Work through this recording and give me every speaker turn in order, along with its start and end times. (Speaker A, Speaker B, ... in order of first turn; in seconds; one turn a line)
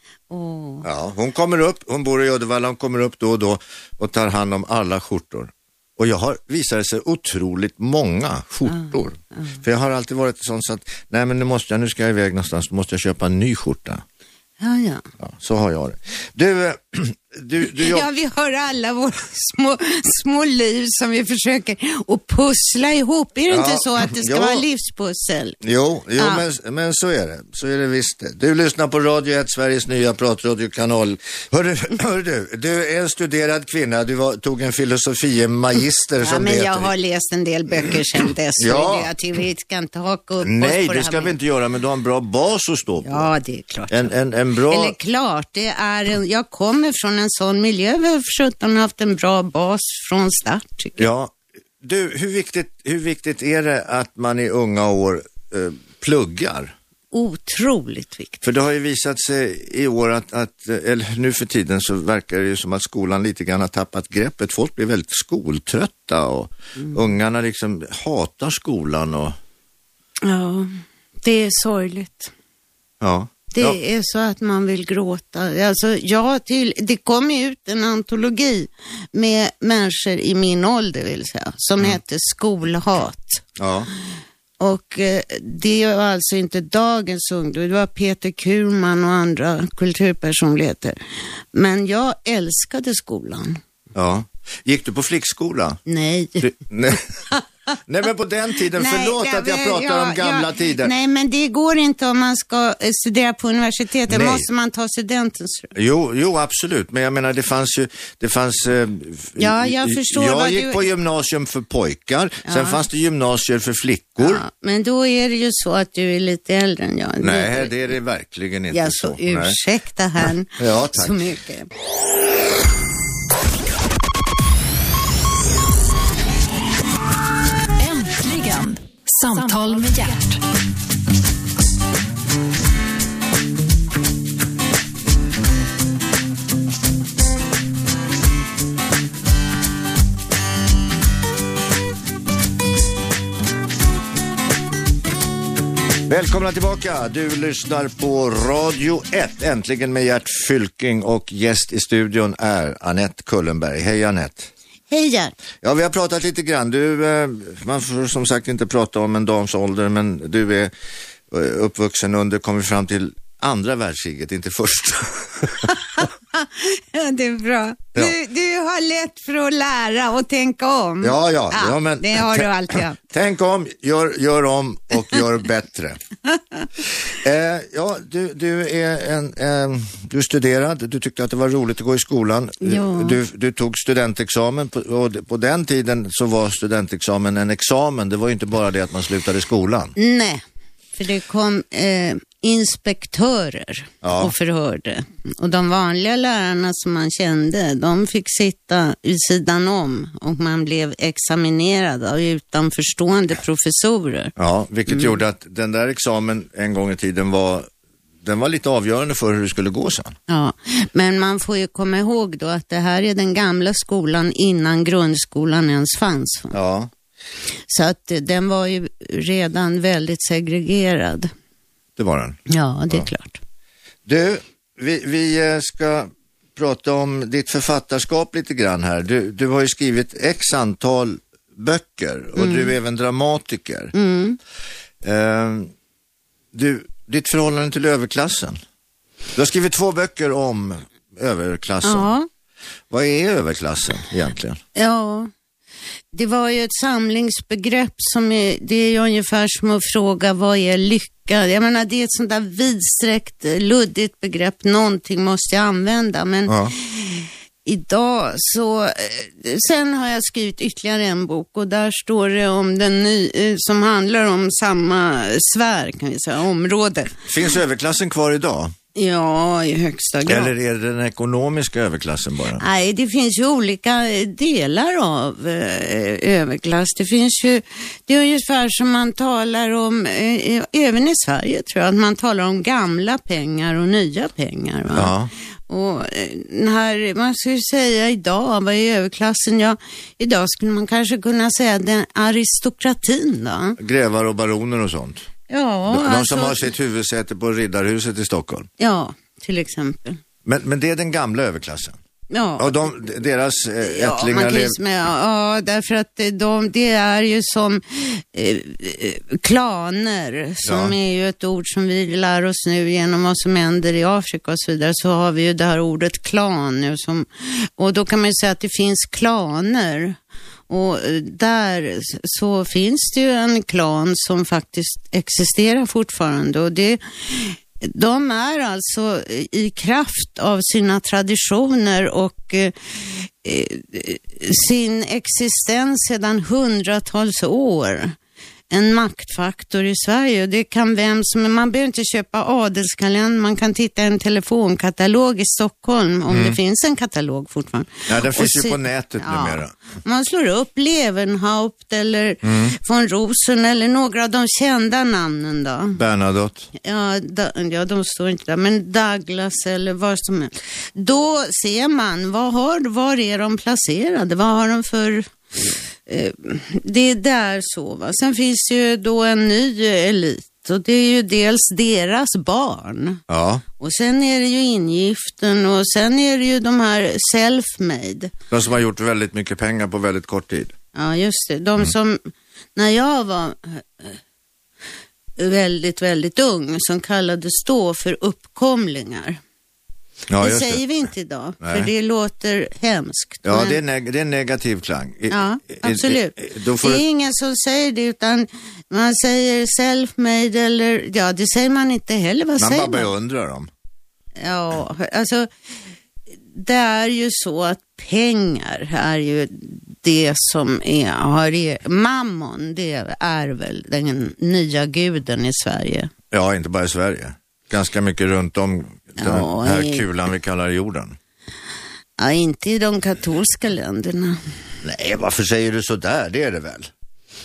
Speaker A: 0.3-0.9
Speaker B: 0.8-14.0
Speaker A: 8.7-9.6
Speaker A: 14.6-15.0
Speaker B: 15.2-18.0
Speaker A: 17.7-25.6
Speaker B: 23.5-24.6
Speaker B: 25.6-36.9
Speaker A: 26.2-26.4
Speaker A: 36.2-41.4
Speaker B: 38.6-39.1
Speaker B: 40.4-43.3
Speaker A: 43.0-44.1
Speaker B: 43.9-45.0
Speaker A: 44.6-51.1
Speaker B: 51.0-56.7
Speaker A: 57.1-58.4
Speaker B: 58.4-69.4
Speaker A: 70.2-70.7
Speaker A: 71.2-72.3
Speaker B: 73.0-73.8
Speaker A: 73.5-83.5
Speaker B: 83.6-83.9
Speaker A: 84.6-91.0
Speaker A: 91.5-93.6
Speaker B: 93.9-95.8
Speaker A: 95.9-96.5
Speaker B: 96.4-97.1
Speaker B: 97.9-100.9
Speaker A: 98.7-105.7
Speaker B: 104.1-104.5
Speaker B: 105.8-114.4
Speaker A: 109.4-110.8
Speaker A: 112.5-112.8
Speaker A: 114.2-117.8
Speaker B: 117.2-119.6
Speaker A: 118.7-121.7
Speaker B: 120.6-121.2
Speaker C: 127.8-130.5
Speaker B: 146.1-154.5
Speaker A: 154.9-155.3
Speaker B: 155.6-160.7
Speaker B: 161.3-165.7
Speaker A: 165.7-173.0
Speaker B: 171.0-176.0
Speaker B: 177.0-189.9
Speaker A: 182.6-183.2
Speaker A: 190.0-190.4
Speaker A: 190.9-204.3
Speaker B: 194.0-194.3
Speaker B: 204.4-207.7
Speaker A: 204.9-205.2
Speaker B: 208.2-210.2
Speaker A: 210.3-216.6
Speaker B: 216.5-216.9
Speaker A: 217.7-221.3
Speaker B: 222.0-223.1
Speaker A: 222.5-223.4
Speaker B: 224.1-233.9
Speaker A: 232.4-232.7
Speaker A: 233.9-234.4
Speaker B: 235.0-235.7
Speaker B: 236.5-238.6
Speaker B: 239.3-242.1
Speaker A: 241.8-242.3
Speaker B: 242.9-244.6
Speaker A: 244.8-245.3
Speaker A: 246.1-267.1
Speaker B: 256.5-256.7
Speaker B: 267.3-268.7
Speaker A: 268.9-270.5
Speaker B: 270.2-272.6
Speaker A: 272.6-285.1
Speaker B: 284.9-285.3
Speaker A: 285.7-293.8
Speaker B: 293.8-295.2
Speaker A: 295.5-296.7
Speaker B: 295.9-298.7
Speaker A: 298.8-300.2
Speaker B: 300.4-302.0
Speaker A: 302.3-302.8
Speaker B: 302.6-304.8
Speaker A: 303.8-320.2
Speaker B: 310.6-310.9
Speaker A: 320.7-338.2
Speaker A: 338.7-356.0
Speaker B: 346.3-346.6
Speaker B: 348.1-349.7
Speaker B: 352.4-352.7
Speaker B: 355.9-356.7
Speaker A: 356.8-373.2
Speaker B: 373.3-373.6
Speaker A: 373.8-378.3
Speaker B: 378.5-380.7
Speaker A: 380.9-384.2
Speaker A: 385.4-389.4
Speaker B: 390.3-390.8
Speaker A: 390.4-393.8
Speaker B: 391.6-391.9
Speaker B: 393.4-397.0
Speaker A: 395.3-403.1
Speaker B: 402.6-403.7
Speaker A: 404.4-405.5
Speaker A: 406.5-416.1
Speaker B: 416.3-421.2
Speaker A: 419.2-420.0
Speaker A: 422.2-424.4
Speaker B: 424.8-426.9